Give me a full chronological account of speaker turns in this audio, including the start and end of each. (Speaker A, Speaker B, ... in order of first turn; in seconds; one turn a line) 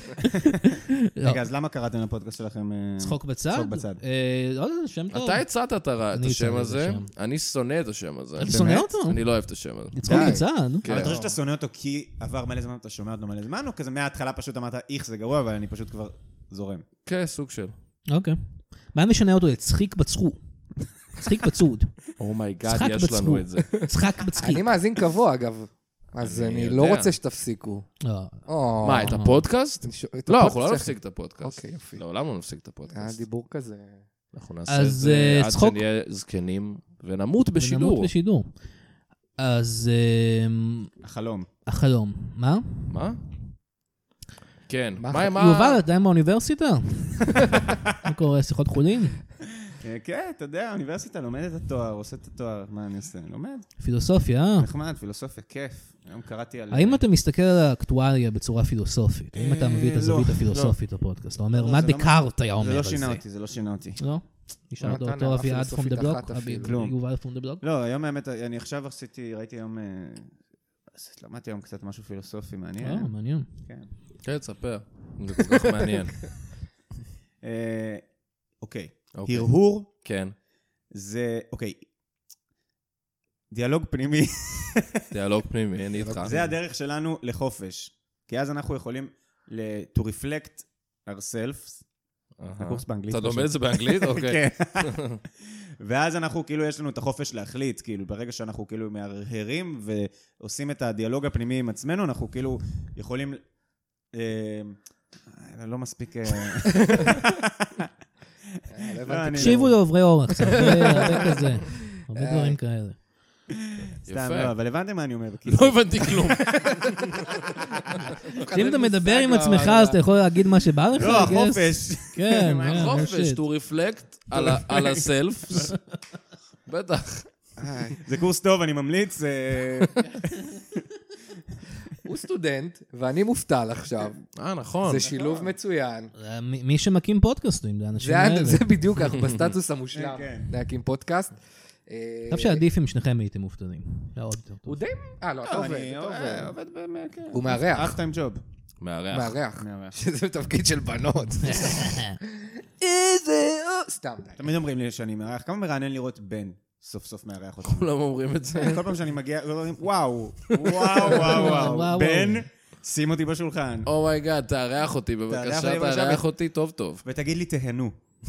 Speaker A: 0.2-1.4
Speaker B: 1.2-4.0
Speaker A: 3.0-5.5
Speaker C: 5.1-10.0
Speaker A: 6.1-7.1
Speaker A: 8.4-9.2
Speaker B: 8.4-8.9
Speaker A: 9.9-11.0
Speaker B: 10.0-16.8
Speaker D: 10.1-10.4
Speaker C: 10.8-11.2
Speaker C: 17.1-17.7
Speaker A: 18.1-18.4
Speaker A: 18.9-20.4
Speaker A: 21.1-22.0
Speaker C: 22.2-23.9
Speaker A: 22.6-24.7
Speaker D: 24.4-27.9
Speaker C: 26.2-27.1
Speaker A: 28.0-28.5
Speaker D: 28.5-29.2
Speaker C: 28.8-33.2
Speaker A: 29.0-29.4
Speaker D: 29.8-32.0
Speaker D: 32.9-34.0
Speaker C: 34.3-38.1
Speaker A: 34.7-35.8
Speaker A: 37.6-38.6
Speaker A: 39.4-40.9
Speaker B: 41.0-41.5
Speaker A: 41.7-42.9
Speaker C: 42.9-43.2
Speaker C: 44.7-45.8
Speaker D: 45.0-45.3
Speaker A: 45.3-49.2
Speaker B: 49.7-53.8
Speaker A: 53.8-54.7
Speaker B: 54.6-57.0
Speaker A: 56.7-63.2
Speaker B: 59.3-60.8
Speaker B: 61.5-64.0
Speaker A: 64.0-67.6
Speaker D: 64.8-66.8
Speaker B: 66.6-70.3
Speaker B: 70.9-73.1
Speaker A: 72.8-73.5
Speaker C: 74.2-76.3
Speaker B: 77.4-78.0
Speaker B: 78.6-79.9
Speaker C: 79.2-80.3
Speaker B: 80.9-81.8
Speaker B: 83.5-85.0
Speaker C: 85.1-86.4
Speaker D: 86.0-86.5
Speaker B: 86.2-91.8
Speaker C: 92.4-95.2
Speaker B: 92.6-95.0
Speaker B: 95.8-103.4
Speaker B: 104.1-107.9
Speaker D: 106.9-107.2
Speaker D: 108.7-109.8
Speaker B: 109.0-109.8
Speaker A: 109.3-113.0
Speaker D: 110.5-111.4
Speaker D: 112.1-112.6
Speaker B: 113.7-116.6
Speaker C: 114.1-114.5
Speaker C: 115.5-117.0
Speaker D: 118.3-120.0
Speaker A: 118.5-123.4
Speaker B: 121.0-123.1
Speaker C: 122.7-125.8
Speaker B: 124.4-124.9
Speaker C: 126.7-127.3
Speaker B: 127.6-130.5
Speaker D: 127.6-128.0
Speaker D: 132.0-134.2
Speaker C: 134.4-135.1
Speaker D: 134.8-136.1
Speaker B: 135.1-135.5
Speaker A: 136.2-138.7
Speaker D: 138.0-142.6
Speaker C: 139.1-139.5
Speaker B: 139.9-140.5
Speaker A: 142.3-144.8
Speaker D: 144.7-146.5
Speaker B: 145.4-148.4
Speaker D: 147.3-148.0
Speaker C: 148.8-149.4
Speaker D: 149.1-154.4
Speaker B: 149.6-149.9
Speaker A: 151.4-152.2
Speaker B: 154.4-157.9
Speaker C: 157.6-158.9
Speaker B: 158.5-163.9
Speaker C: 160.5-161.4
Speaker A: 161.2-162.5
Speaker C: 163.9-167.0
Speaker B: 165.3-166.2
Speaker B: 167.0-168.0